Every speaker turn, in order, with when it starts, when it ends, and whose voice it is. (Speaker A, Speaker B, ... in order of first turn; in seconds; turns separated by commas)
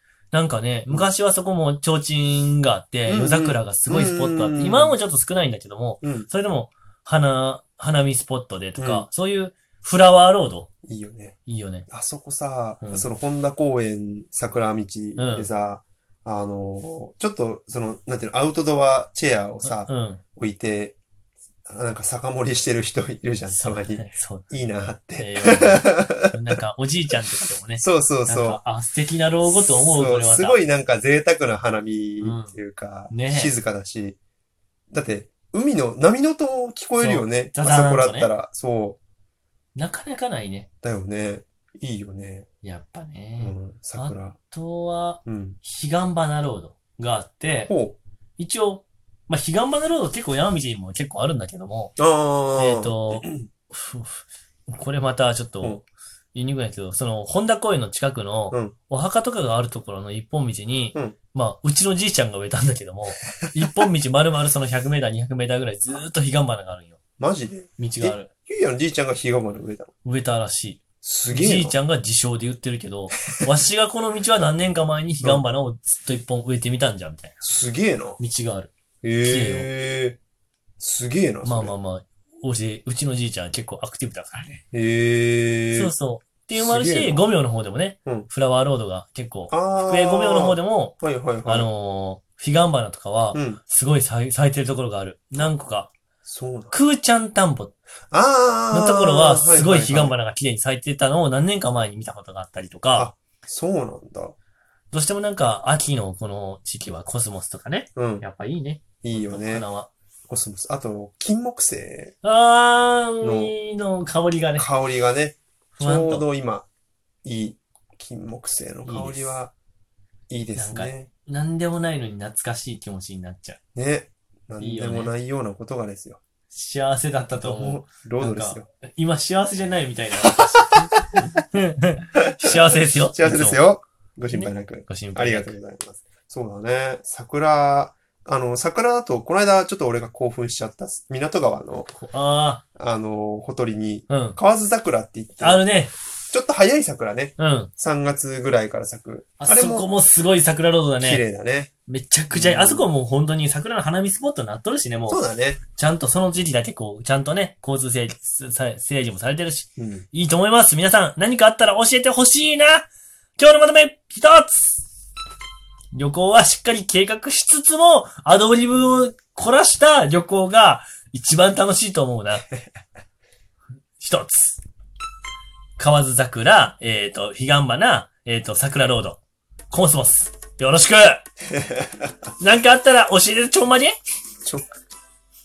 Speaker A: 0.3-10.7, Speaker B: 3.1-5.0, Speaker B: 6.0-6.3, Speaker B: 8.8-9.1, Speaker B: 10.8-11.4, Speaker A: 11.4-11.9, Speaker B: 11.9-21.0, Speaker A: 12.8-13.1, Speaker A: 15.2-15.5, Speaker A: 19.6-20.2, Speaker B: 21.7-26.3, Speaker A: 23.5-24.5, Speaker A: 25.1-30.6, Speaker B: 27.8-28.6, Speaker B: 29.4-34.2, Speaker A: 32.2-32.6, Speaker A: 33.1-33.5, Speaker B: 34.9-39.0, Speaker A: 37.0-38.3, Speaker A: 39.7-40.7, Speaker B: 40.8-42.5, Speaker A: 42.6-47.7, Speaker B: 43.4-44.4, Speaker B: 45.2-45.6, Speaker B: 47.7-48.0, Speaker A: 48.4-51.9, Speaker B: 52.0-53.5, Speaker A: 52.5-55.8, Speaker A: 56.3-67.0, Speaker B: 67.2-69.9, Speaker A: 67.8-68.3, Speaker A: 70.0-77.4, Speaker B: 71.0-71.8, Speaker B: 77.4-78.2, Speaker A: 78.2-79.7, Speaker B: 79.0-80.2, Speaker B: 80.8-81.7, Speaker A: 81.4-84.6, Speaker B: 84.7-85.9, Speaker A: 85.7-95.9, Speaker B: 86.5-87.2, Speaker B: 89.5-91.7, Speaker B: 93.3-93.6, Speaker B: 96.2-96.7, Speaker A: 96.7-97.7, Speaker B: 98.1-100.2, Speaker A: 98.7-103.1, Speaker B: 102.9-104.3, Speaker A: 104.9-109.9, Speaker B: 108.0-108.2, Speaker B: 109.0-109.7, Speaker B: 110.3-112.2, Speaker A: 112.2-114.7, Speaker B: 113.2-113.5, Speaker B: 114.5-116.7, Speaker A: 115.8-116.2, Speaker B: 117.2-119.5, Speaker A: 118.8-119.4, Speaker B: 120.3-121.1, Speaker A: 120.5-123.6, Speaker B: 123.7-126.2, Speaker A: 124.6-125.1, Speaker A: 126.5-133.6, Speaker B: 127.4-128.7, Speaker B: 130.2-131.3, Speaker B: 132.2-141.9, Speaker A: 134.3-135.6, Speaker A: 141.9-142.6, Speaker B: 142.8-145.6, Speaker A: 144.1-144.4, Speaker A: 145.4-145.9, Speaker B: 146.3-149.9, Speaker A: 147.4-147.7, Speaker A: 149.4-151.2, Speaker B: 151.0-151.7, Speaker A: 151.9-155.2, Speaker B: 152.3-152.9, Speaker B: 155.1-155.6, Speaker A: 155.7-164.8, Speaker B: 159.8-160.1, Speaker A: 165.9-172.5, Speaker A: 174.0-174.6, Speaker A: 175.8-181.2, Speaker B: 181.5-182.1, Speaker A: 182.4-183.9